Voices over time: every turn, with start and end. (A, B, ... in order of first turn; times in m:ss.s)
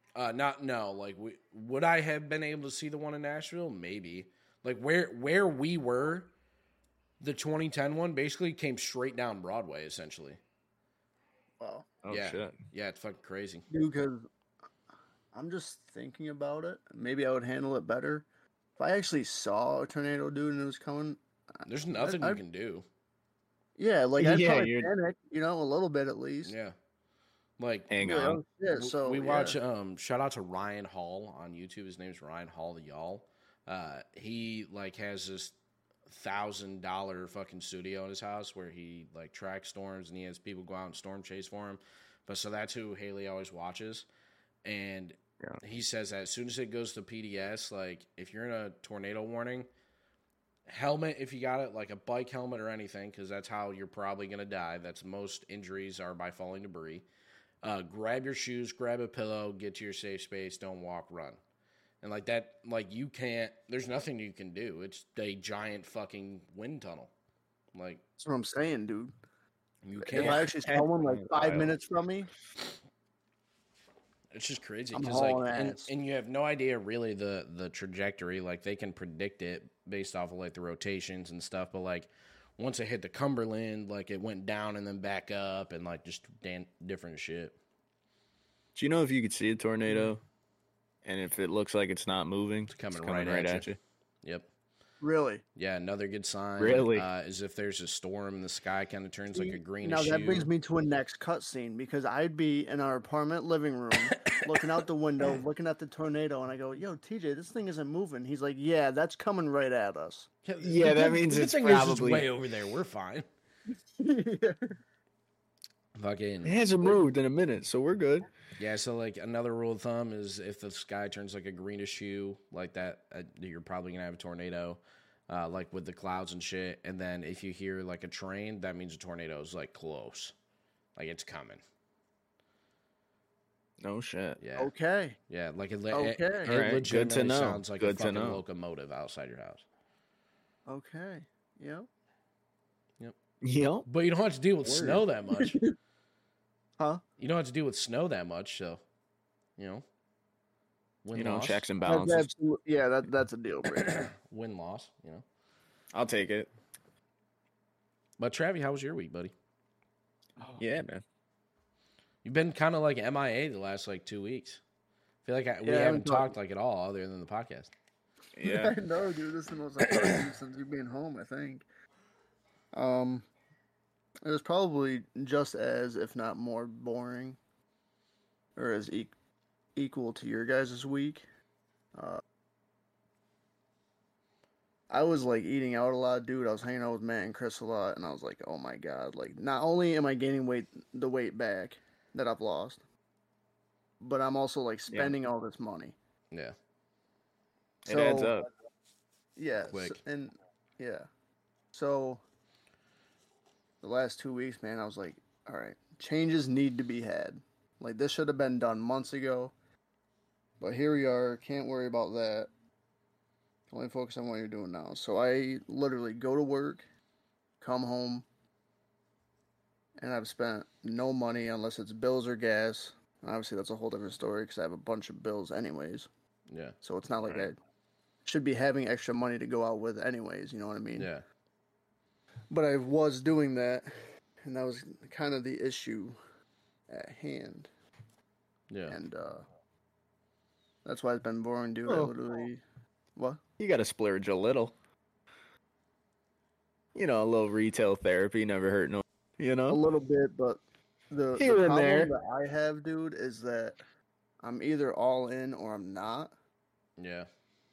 0:00.2-0:06.3 A
0:07.2-0:10.4 A
0:11.6-0:11.9 B
0:12.0-0:12.6 C
0:12.1-0:13.7 A
0:13.7-0:14.3 B
0:15.3-0:18.3 B
0:18.8-0:21.2 B
0:21.7-0:22.8 A
0:22.0-0:22.4 B
0:23.8-0:26.5 B
0:24.2-0:24.9 C
0:26.4-0:26.8 A
0:27.6-0:27.9 A
0:27.9-0:28.4 C
0:28.0-0:29.6 B
0:28.8-0:35.5 A
0:36.1-0:44.1 A
0:44.6-0:49.7 A
0:50.7-0:57.0 A
0:57.6-1:01.4 A
1:02.0-1:07.1 A
1:07.7-1:08.0 A
1:08.2-1:09.2 B
1:09.8-1:10.5 A
1:10.0-1:12.3 B
1:10.2-1:11.7 C
1:14.3-1:27.6 A
1:14.9-1:15.9 B
1:28.8-1:30.2 C
1:31.0-1:33.8 C
1:32.7-1:33.7 A
1:35.0-1:35.4 B
1:35.6-1:40.5 A
1:36.6-1:37.1 C
1:39.3-1:50.3 B
1:44.1-1:44.4 A
1:50.4-1:53.3 A
1:50.6-1:52.3 C
1:54.0-1:54.8 B
1:56.0-1:56.5 A
1:56.4-1:58.3 C
1:58.6-2:10.4 A
2:11.0-2:11.6 A
2:13.8-2:14.4 C
2:14.4-2:14.7 A
2:14.6-2:15.2 B
2:15.3-2:19.6 A
2:15.9-2:16.5 B
2:16.5-2:18.4 C
2:20.7-2:21.9 B
2:23.4-2:23.9 C
2:23.9-2:25.6 A
2:24.7-2:25.7 B
2:27.2-2:28.8 A
2:29.6-2:29.8 A
2:31.0-2:31.7 A
2:31.2-2:32.3 C
2:31.8-2:34.0 B
2:33.8-2:35.2 A
2:35.9-2:36.5 C
2:38.2-2:39.3 A
2:40.6-2:41.0 C
2:42.2-2:44.6 A
2:45.2-2:47.7 A
2:45.6-2:46.4 B
2:48.4-2:48.8 C
2:48.4-2:51.6 B
2:52.7-2:53.3 B
2:54.2-2:57.4 B
2:58.6-2:59.1 B
2:59.8-3:01.3 B
3:01.9-3:02.2 B
3:04.9-3:12.8 B
3:14.0-3:16.0 B
3:14.9-3:15.2 C
3:17.8-3:18.5 C
3:17.9-3:18.3 B
3:19.4-3:21.1 B
3:19.7-3:20.0 A
3:21.7-3:22.2 B
3:23.8-3:29.5 B
3:30.6-3:32.5 B
3:33.7-3:36.8 B
3:37.6-3:38.3 B
3:40.0-3:46.1 B
3:46.5-3:46.8 A
3:46.8-3:47.6 B
3:48.2-3:51.1 B
3:51.0-3:51.2 A
3:52.5-3:56.2 B
3:56.9-3:57.7 B
3:58.7-3:59.0 A
3:58.9-3:59.4 B
4:00.8-4:02.6 B
4:03.2-4:03.4 B
4:03.6-4:04.7 C
4:07.0-4:09.8 C
4:09.7-4:13.8 B
4:11.4-4:12.1 C
4:14.4-4:16.3 B
4:17.0-4:17.3 A